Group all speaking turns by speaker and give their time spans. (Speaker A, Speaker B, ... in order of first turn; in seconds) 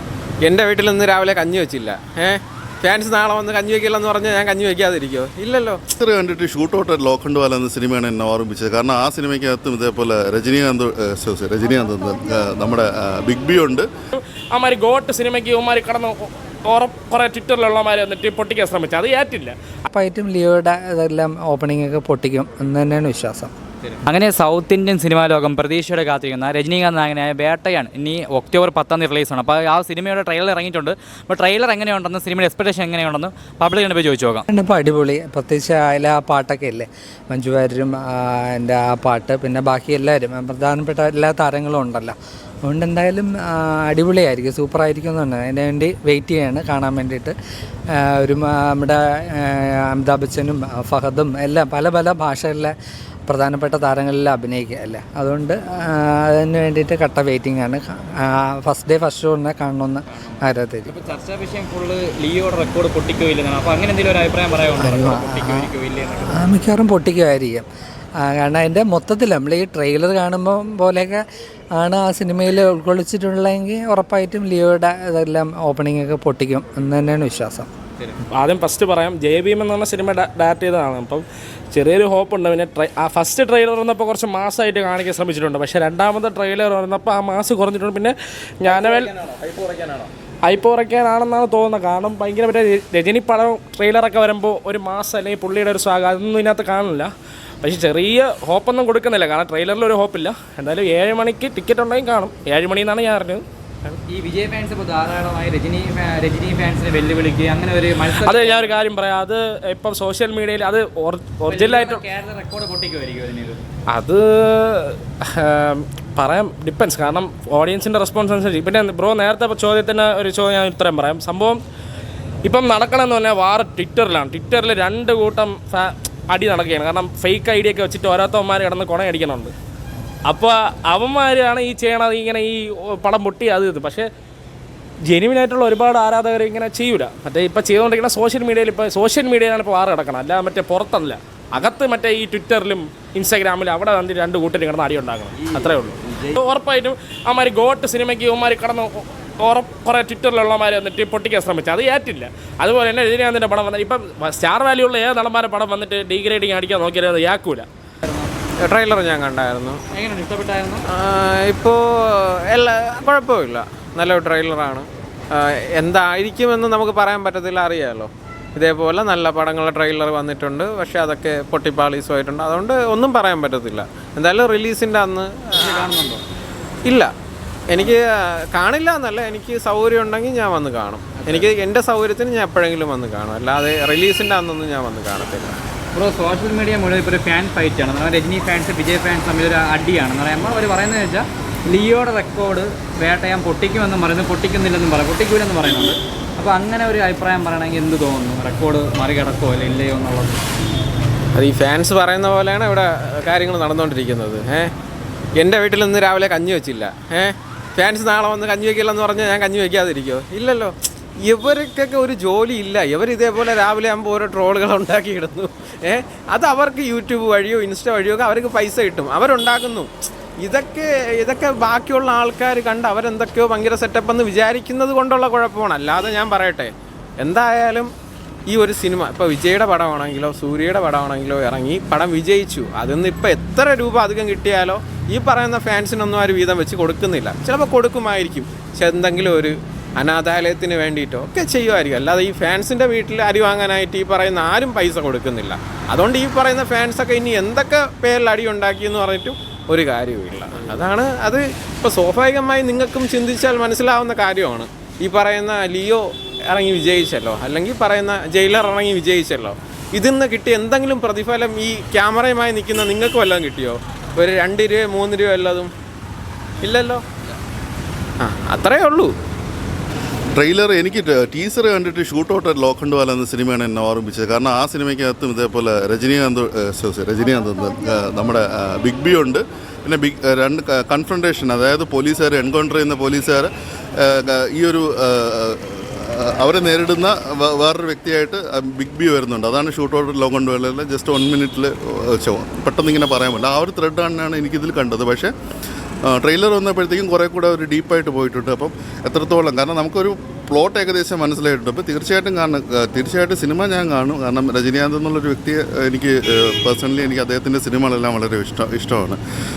Speaker A: 0.4-5.8, 88.7-90.1, 158.6-159.8, 160.9-175.9, 176.8-177.1, 177.7-185.6, 201.3-204.7, 205.4-219.9, 220.4-227.9, 228.5-265.7, 266.6-267.0, 268.2-269.1
Speaker B: 6.0-13.9, 270.3-295.3, 296.0-309.2
Speaker C: 14.1-19.6, 78.3-89.1, 90.5-104.0, 108.1-112.0, 113.9-121.6, 122.4-129.5, 130.3-134.1, 135.1-157.7
Speaker D: 19.9-23.5, 34.5-47.3, 48.0-52.7, 53.3-60.9, 64.8-65.7, 66.3-67.7, 68.2-71.2, 71.8-77.7
Speaker E: 23.9-34.4, 60.9-66.4, 104.1-108.7, 111.5-113.6, 159.9-160.9, 175.6-176.2, 181.2-181.5, 185.9-200.4